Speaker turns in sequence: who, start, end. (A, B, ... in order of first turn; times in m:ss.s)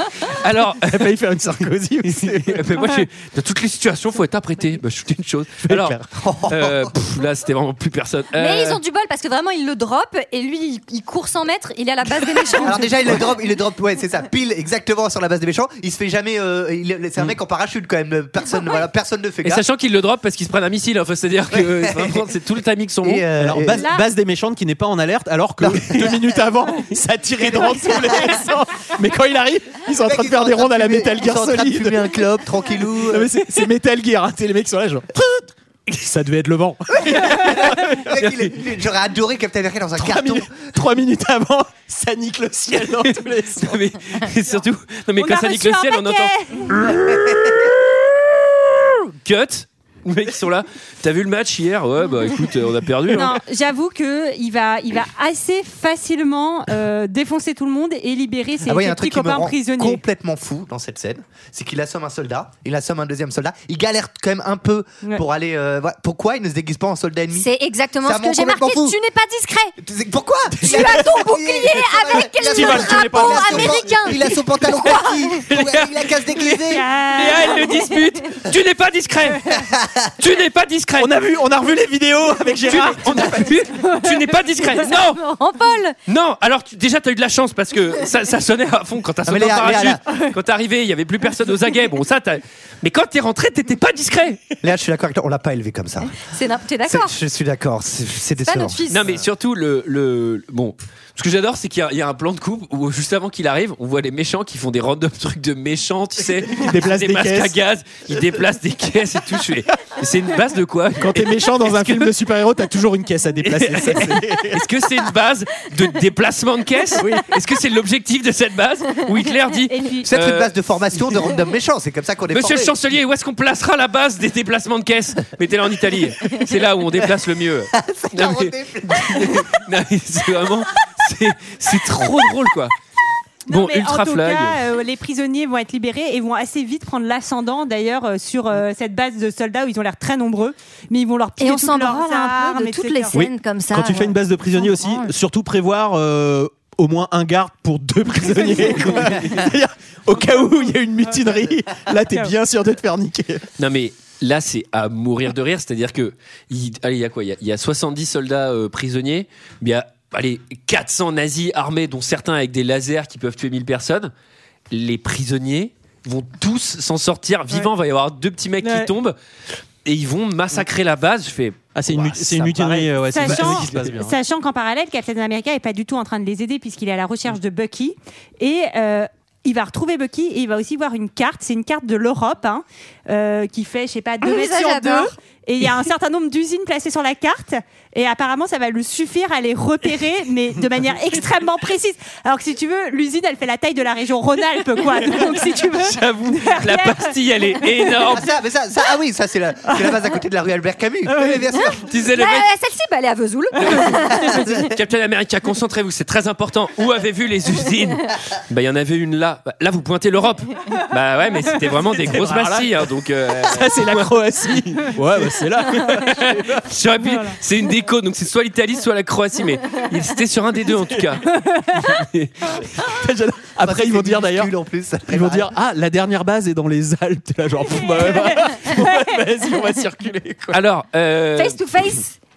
0:00.2-0:01.1 A
0:00.8-0:02.7 B
0:02.1-0:06.0 A
0:05.6-0:06.1 B
0:06.2-0:06.9 C
0:06.5-0:08.8 A
0:08.4-0:13.2 D
0:12.6-0:19.6 C
0:19.4-0:23.2 A
0:21.5-0:22.2 C
0:23.0-0:23.9 C
0:23.4-0:32.1 B
0:23.8-0:24.1 E
0:25.6-0:26.4 C
0:27.4-0:28.3 C
0:27.5-0:28.5 E
0:30.0-0:33.3 C
0:33.1-0:38.0 B
0:37.2-0:37.6 A
0:37.2-0:40.7 C
0:38.2-0:38.5 A
0:40.0-0:43.8 B
0:42.7-0:48.0 A
0:45.2-0:46.8 E
0:48.7-0:53.4 A
0:53.1-1:00.0 E
0:58.6-1:07.5 C
1:07.3-1:09.8 D
1:08.0-1:09.0 C
1:09.8-1:16.9 C
1:10.6-1:15.3 D
1:12.4-1:14.2 B
1:15.5-1:16.6 A
1:16.6-1:17.8 E
1:17.2-1:19.5 A
1:17.7-1:18.0 D
1:19.5-1:20.1 C
1:20.2-1:21.1 A
1:21.0-1:23.6 B
1:22.7-1:25.2 A
1:23.9-1:24.8 E
1:25.2-1:26.0 D
1:26.1-1:34.4 A
1:29.2-1:30.0 C
1:34.6-1:36.2 C
1:36.1-1:37.2 D
1:36.9-1:38.8 C
1:38.4-1:39.0 D
1:38.9-1:52.1 A
1:46.4-1:47.6 B
1:51.0-1:54.6 B
1:53.4-2:00.5 A
1:57.0-1:57.3 B
1:59.7-2:00.1 E
2:00.0-2:02.7 C
2:02.3-2:12.7 A
2:07.7-2:09.5 C
2:13.5-2:14.6 A
2:13.5-2:23.2 E
2:21.4-2:25.1 D
2:23.1-2:33.4 B
2:32.1-2:32.3 E
2:33.6-2:44.1 A
2:44.7-2:49.2 A
2:48.6-2:48.9 E
2:49.8-2:53.8 A
2:51.8-2:54.2 B
2:53.1-3:18.1 E
3:04.2-3:05.1 D
3:15.1-3:18.3 A
3:18.1-3:21.8 C
3:19.7-3:20.0 E
3:21.1-3:21.4 E
3:21.9-3:22.5 A
3:22.2-3:24.7 D
3:23.6-3:24.0 A
3:23.7-3:24.4 E
3:24.3-3:24.6 C
3:24.7-3:34.1 A
3:32.0-3:36.6 B
3:35.9-3:42.6 A
3:41.4-3:41.9 E
3:42.8-3:44.5 B
3:43.6-3:45.5 C
3:45.1-3:50.6 B
3:47.7-3:48.4 E
3:50.5-3:51.6 A
3:51.4-3:52.1 D